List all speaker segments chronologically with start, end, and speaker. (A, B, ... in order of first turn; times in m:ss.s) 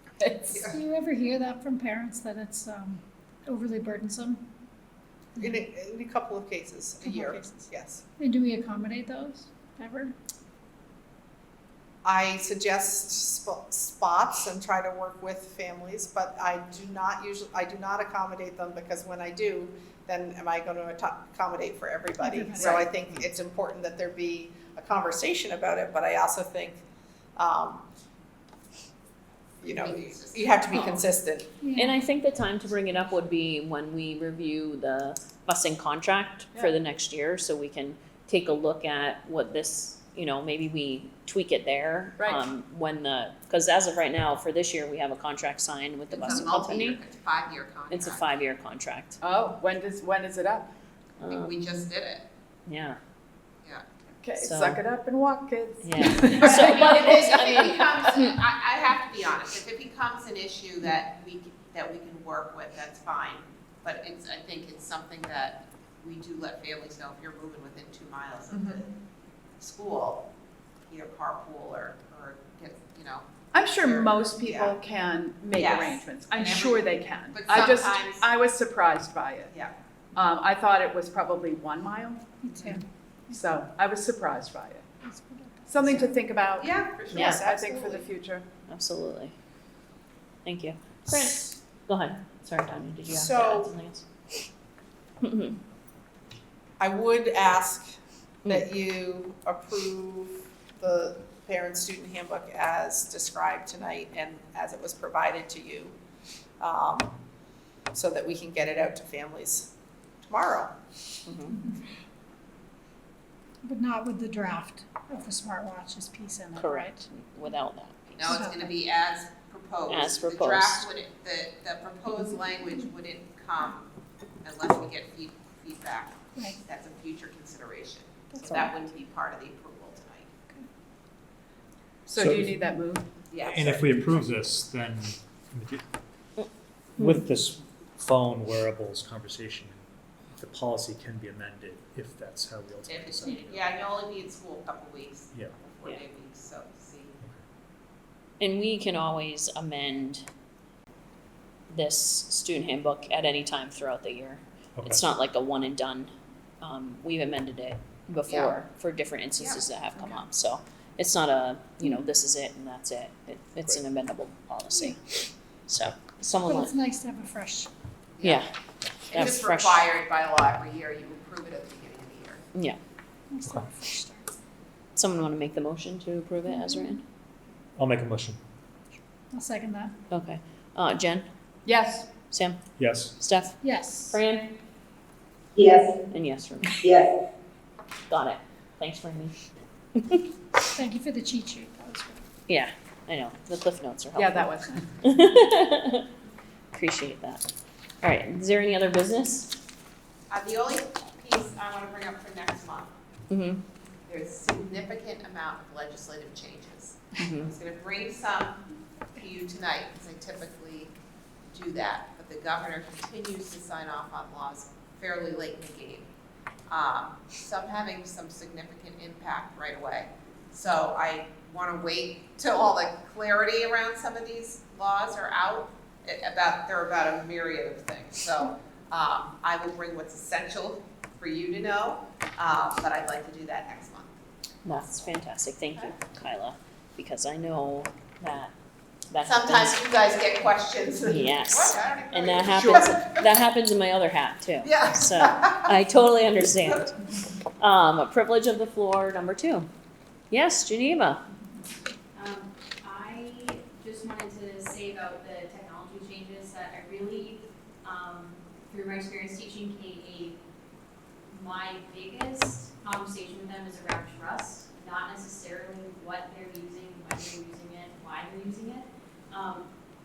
0:00.2-0:00.8 A
0:00.8-0:04.4 B
0:05.4-0:08.0 C
0:07.1-0:07.5 B
0:08.2-0:10.1 B
0:12.0-0:26.8 C
0:22.2-0:22.7 B
0:22.6-0:22.9 A
0:27.4-0:27.8 C
0:29.6-0:31.0 D
0:29.6-0:31.5 C
0:31.6-0:31.9 B
0:31.7-0:47.0 E
0:42.2-0:42.4 A
0:46.1-0:48.3 D
0:47.9-0:49.2 E
0:49.2-0:50.7 A
0:51.2-0:51.7 E
0:51.3-0:52.2 D
0:52.7-0:53.0 E
0:54.2-0:57.2 A
0:54.4-0:54.8 E
0:55.8-0:58.4 E
0:56.3-1:08.9 D
1:08.5-1:08.8 A
1:09.6-1:10.2 D
1:10.9-1:14.7 D
1:13.5-1:19.5 A
1:15.5-1:18.3 D
1:20.2-1:22.7 A
1:22.4-1:22.8 B
1:23.3-1:24.9 A
1:25.0-1:25.7 B
1:25.6-1:28.4 A
1:26.5-1:27.5 D
1:27.1-1:27.4 E
1:27.2-1:28.1 C
1:28.7-1:29.3 E
1:30.4-1:34.4 E
1:33.1-1:33.7 C
1:35.2-1:35.6 E
1:36.8-1:37.9 C
1:38.4-1:46.0 C
1:46.6-1:47.1 C
1:47.9-1:49.7 C
1:50.2-1:50.7 C
1:51.2-1:51.6 E
1:53.6-1:57.0 B
1:56.5-1:58.4 E
1:58.2-2:03.9 D
1:58.3-1:58.7 B
1:59.9-2:00.9 E
2:04.4-2:10.3 D
2:12.1-2:13.1 A
2:12.1-2:12.6 F
2:13.3-2:14.2 D
2:13.4-2:15.8 F
2:17.0-2:19.8 F
2:20.3-2:23.7 F
2:22.9-2:27.2 D
2:28.4-2:30.2 E
2:31.7-2:36.1 E
2:34.8-2:35.0 F
2:36.6-2:46.7 E
2:38.3-2:38.6 D
2:46.5-2:46.8 A
2:46.8-2:47.7 B
2:48.2-2:48.4 D
2:48.2-2:48.5 E
2:49.0-2:49.9 E
2:49.1-2:52.4 D
2:53.3-2:54.3 B
2:55.0-2:57.0 E
2:56.5-2:56.8 B
2:57.8-2:58.4 F
2:59.3-2:59.9 B
3:00.1-3:01.2 E
3:01.6-3:02.1 A
3:02.3-3:02.6 E
3:02.8-3:03.1 F
3:03.2-3:04.5 E
3:03.6-3:04.2 B
3:06.1-3:06.8 E
3:08.1-3:09.4 E
3:10.0-3:10.2 E
3:10.8-3:12.2 B
3:12.5-3:16.0 E
3:14.1-3:14.9 A
3:16.7-3:17.4 E
3:18.0-3:19.5 E
3:20.3-3:22.9 D
3:23.3-3:23.6 E
3:24.1-3:28.6 D
3:27.2-3:27.5 E
3:29.1-3:30.9 D
3:31.5-3:36.1 D
3:36.7-3:54.1 D
3:54.6-3:58.5 E
3:59.1-3:59.8 E
3:59.2-4:03.3 D
4:01.0-4:07.0 E
4:04.6-4:05.7 D
4:07.6-4:09.7 E
4:10.3-4:11.2 E
4:12.1-4:20.4 G
4:21.3-4:29.7 G